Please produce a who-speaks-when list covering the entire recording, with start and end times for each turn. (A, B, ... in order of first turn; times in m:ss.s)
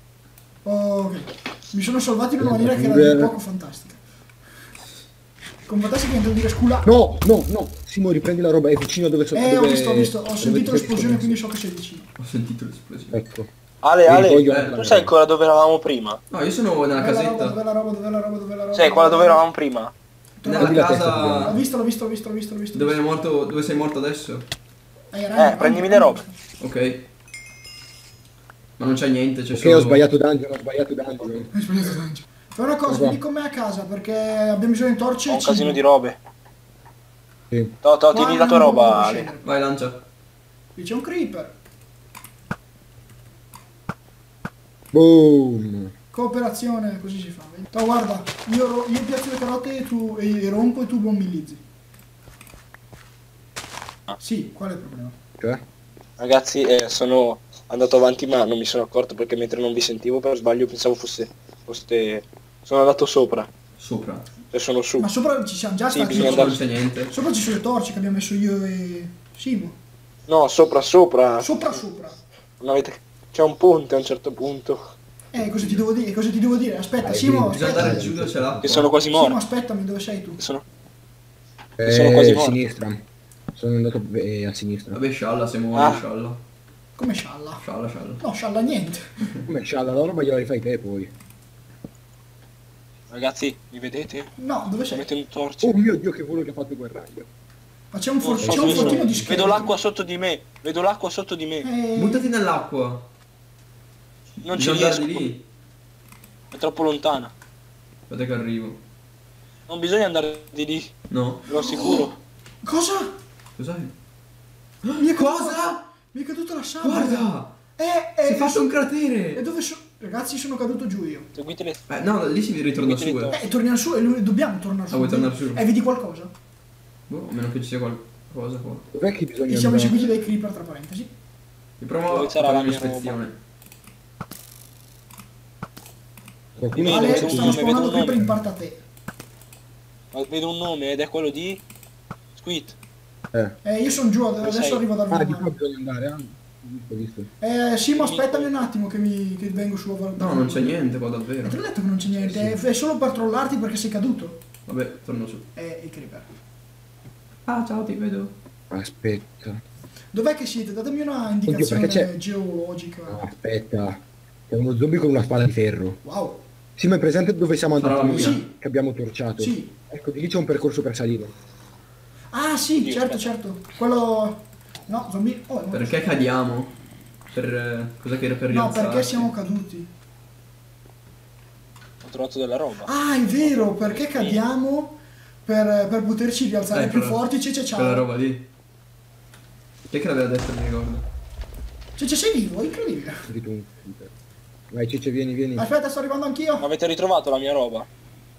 0:00.6-0:04.0 A
0:02.4-0:03.4 B
0:05.7-0:06.9 A
0:06.8-0:11.4 B
0:09.3-0:12.1 A
0:12.2-0:13.2 C
0:13.1-0:13.5 B
0:13.8-0:16.2 D
0:14.0-0:15.1 B
0:14.5-0:14.8 C
0:16.3-0:17.6 C
0:17.0-0:19.4 A
0:18.7-0:19.9 D
0:20.4-0:20.8 A
0:20.4-0:21.6 C
0:20.6-0:21.6 B
0:21.4-0:23.0 A
0:22.7-0:24.5 C
0:25.1-0:26.4 A
0:25.4-0:26.2 D
0:26.6-0:27.1 C
0:28.8-0:30.0 C
0:29.5-0:31.5 B
0:31.5-0:35.8 A
0:32.9-0:33.2 B
0:35.3-0:36.2 D
0:37.5-0:37.8 B
0:37.8-0:39.3 D
0:38.1-0:39.5 A
0:39.4-0:40.0 C
0:40.8-0:41.5 A
0:44.9-0:45.9 B
0:46.1-0:51.6 A
0:54.2-0:55.2 A
0:56.2-1:03.5 D
1:03.8-1:04.3 C
1:04.5-1:05.1 D
1:05.0-1:09.8 A
1:05.9-1:06.6 D
1:06.1-1:07.1 C
1:10.3-1:11.7 D
1:11.4-1:12.2 A
1:12.6-1:14.8 D
1:15.3-1:18.0 A
1:15.4-1:15.8 B
1:17.0-1:18.7 B
1:17.5-1:18.9 C
1:18.6-1:19.4 D
1:19.1-1:20.4 A
1:20.4-1:20.6 D
1:21.8-1:23.0 B
1:21.9-1:22.6 D
1:23.5-1:25.0 B
1:24.9-1:26.4 C
1:25.8-1:26.0 D
1:27.0-1:27.6 A
1:27.6-1:28.2 C
1:28.2-1:29.0 A
1:29.5-1:31.1 B
1:33.1-1:34.3 D
1:34.4-1:35.1 A
1:34.9-1:35.7 D
1:35.6-1:37.3 B
1:37.9-1:39.8 A
1:38.2-1:41.7 D
1:38.4-1:39.3 B
1:41.6-1:42.3 A
1:42.0-1:43.1 C
1:44.4-1:45.3 D
1:44.5-1:45.4 C
1:46.5-1:47.3 D
1:48.1-1:48.8 C
1:49.7-1:50.9 D
1:51.1-1:51.5 C
1:51.5-1:52.2 D
1:51.5-1:52.1 A
1:52.6-1:53.1 A
1:53.6-1:53.9 C
1:54.8-1:55.8 C
1:55.0-1:58.8 A
1:56.8-1:57.5 C
1:58.2-1:59.4 C
1:59.3-2:01.3 A
2:01.4-2:01.8 D
2:01.9-2:03.4 C
2:02.8-2:03.4 D
2:03.3-2:06.3 A
2:04.9-2:05.6 C
2:07.1-2:08.8 C
2:08.9-2:10.0 B
2:09.5-2:11.1 A
2:11.8-2:13.4 C
2:12.1-2:13.2 D
2:16.6-2:17.6 B
2:16.7-2:18.3 D
2:16.8-2:18.8 A
2:20.1-2:21.6 D
2:22.4-2:22.8 D
2:23.3-2:23.6 B
2:23.6-2:25.5 A
2:24.4-2:24.8 D
2:25.1-2:27.3 B
2:27.4-2:30.9 A
2:27.9-2:28.6 D
2:30.2-2:31.6 C
2:31.4-2:34.4 A
2:32.2-2:32.6 B
2:34.7-2:35.5 C
2:35.6-2:36.3 A
2:37.5-2:38.3 C
2:38.7-2:39.6 B
2:40.1-2:43.2 A
2:41.5-2:42.1 B
2:43.1-2:46.0 B
2:46.0-2:46.4 A
2:46.8-2:51.4 B
2:47.8-2:48.4 C
2:48.1-2:48.5 A
2:49.4-2:49.7 A
2:52.3-2:56.1 A
2:52.8-2:53.3 D
2:55.7-2:56.7 C
2:57.3-2:59.3 C
2:58.5-2:59.9 A
3:02.0-3:04.4 D
3:02.8-3:08.1 A
3:06.7-3:08.5 C
3:09.9-3:11.1 C
3:12.0-3:13.2 A
3:13.3-3:14.1 B
3:14.7-3:15.7 B
3:15.6-3:16.7 A
3:16.6-3:17.9 D